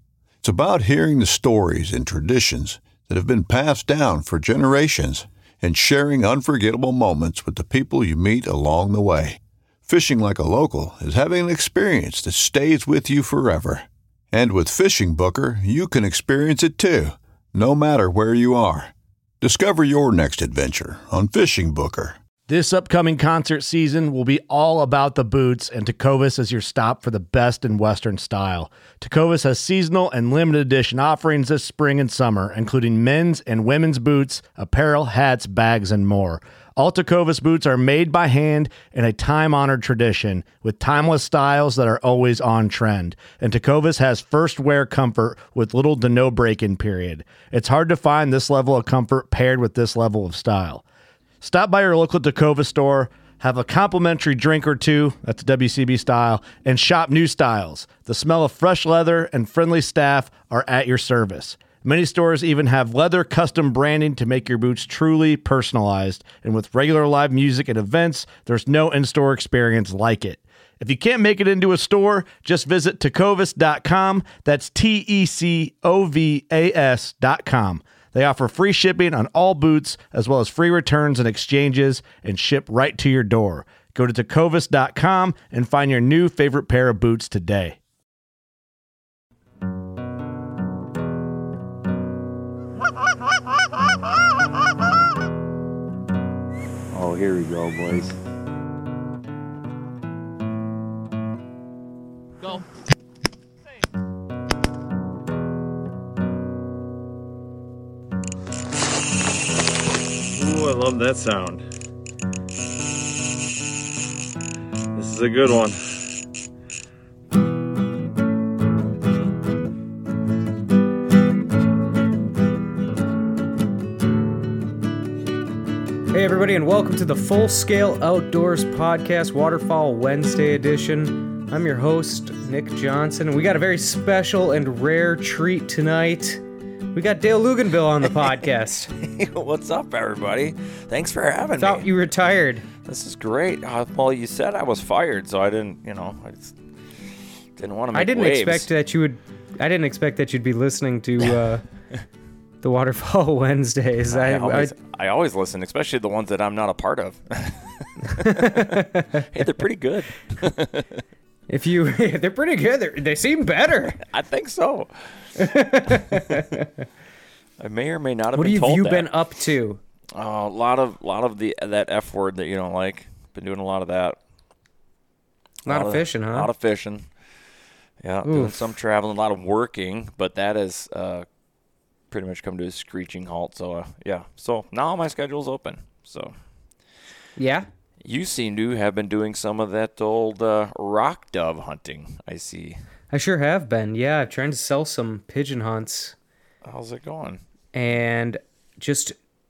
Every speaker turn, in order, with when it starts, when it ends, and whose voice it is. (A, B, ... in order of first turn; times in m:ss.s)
0:00.4-0:22.2 A
0:22.5-0:50.8 B
0:51.4-1:27.8 B
1:36.9-1:38.1 C
1:37.0-1:37.9 D
1:50.3-1:51.6 C
1:50.4-1:51.5 D
1:54.9-1:55.8 D
1:55.0-1:55.7 C
2:06.1-2:16.4 E
2:16.9-2:18.9 E
2:19.0-2:21.9 D
2:21.6-2:22.7 E
2:22.8-2:26.5 D
2:27.6-2:28.7 D
2:27.9-2:31.6 E
2:32.6-2:34.7 E
2:34.1-2:41.0 D
2:38.2-2:39.2 E
2:41.5-2:44.0 E
2:44.1-2:45.4 D
2:45.4-2:46.8 E
2:45.9-2:46.3 D
2:47.6-2:49.1 D
2:48.3-2:49.8 E
2:50.1-2:54.2 D
2:55.6-2:56.5 E
2:55.7-2:57.0 D
2:58.0-3:01.2 D
2:58.2-2:58.6 E
3:02.1-3:06.3 D
3:07.4-3:07.7 E
3:08.0-3:12.8 D
3:13.1-3:16.1 E
3:16.6-3:17.4 D
3:17.7-3:19.2 E